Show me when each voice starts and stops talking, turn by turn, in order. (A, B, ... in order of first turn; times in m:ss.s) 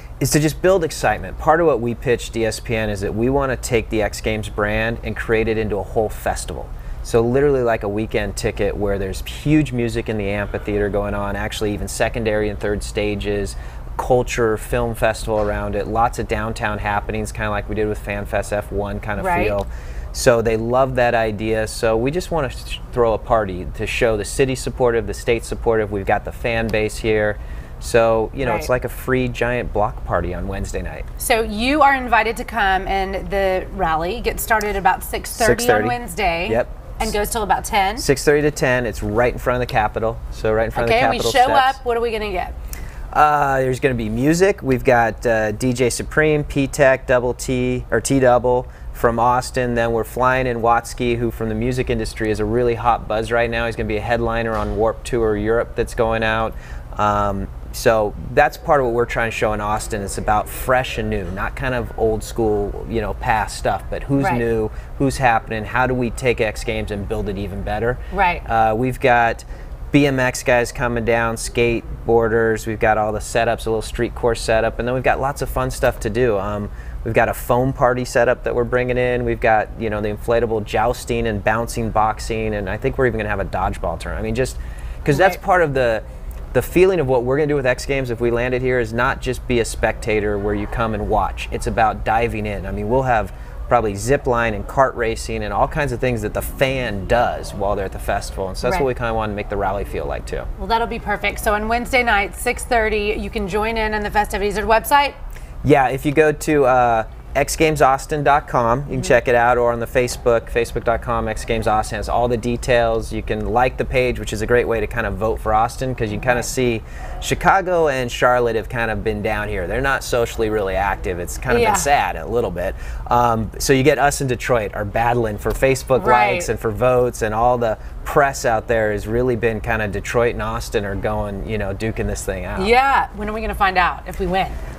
0:00.2-0:31.1 A
0:19.2-0:19.6 B
0:28.4-0:28.7 B
0:31.2-0:38.1 B
0:35.3-0:37.0 A
0:38.0-0:41.8 A
0:40.7-0:42.5 B
0:43.1-1:40.5 A
1:04.2-1:04.4 B
1:08.1-1:08.4 B
1:25.1-1:25.4 B
1:38.6-1:38.9 B
1:40.6-1:45.2 B
1:45.6-2:12.7 A
1:56.2-1:56.4 B
2:01.5-2:01.9 B
2:05.9-2:06.5 B
2:12.6-2:14.6 B